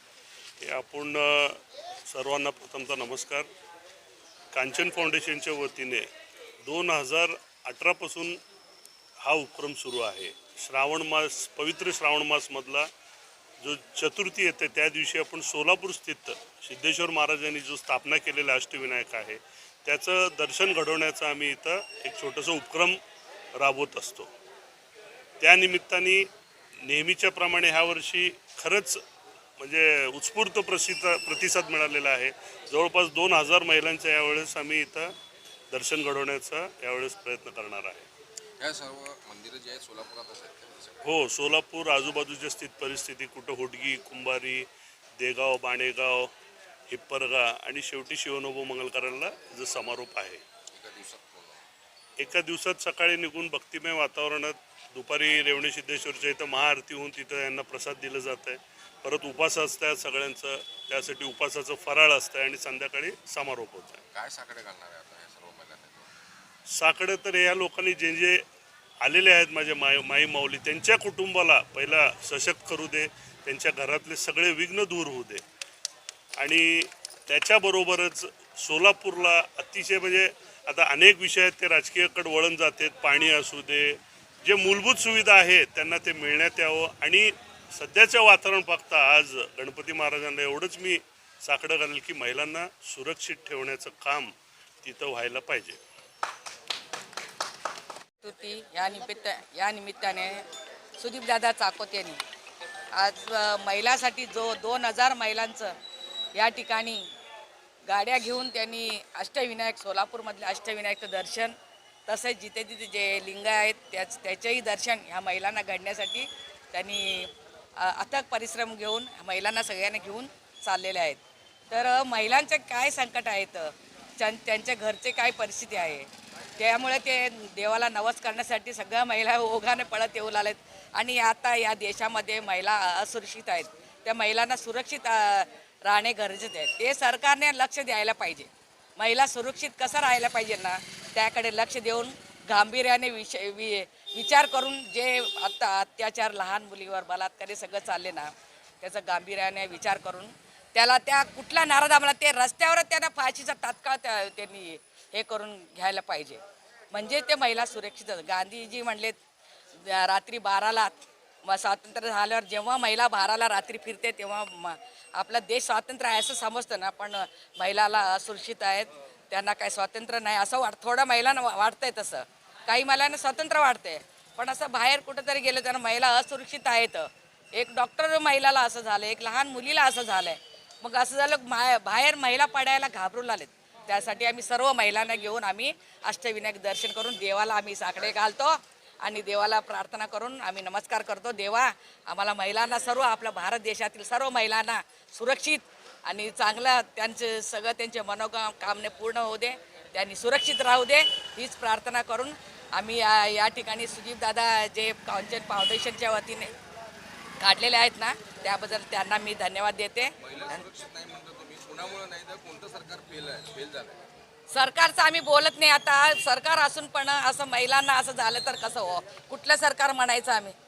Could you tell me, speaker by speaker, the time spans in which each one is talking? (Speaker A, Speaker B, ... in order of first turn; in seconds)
Speaker A: 0.6-3.5, 4.5-6.1, 6.6-8.4, 9.2-12.9, 13.6-23.0, 23.6-24.3, 25.4-26.3, 26.9-29.0, 29.6-35.1, 35.7-38.1, 41.0-44.7, 45.2-46.3, 46.9-50.4, 52.2-64.0, 66.7-68.4, 69.0-75.4, 76.4-95.8
Speaker B: 38.6-41.0, 50.7-51.6, 64.1-66.1, 210.2-214.0
Speaker C: 98.2-100.4, 101.0-102.2, 103.0-105.7, 106.3-107.0, 107.9-111.5, 112.1-159.2, 159.8-206.5, 207.4-210.1, 214.5-220.5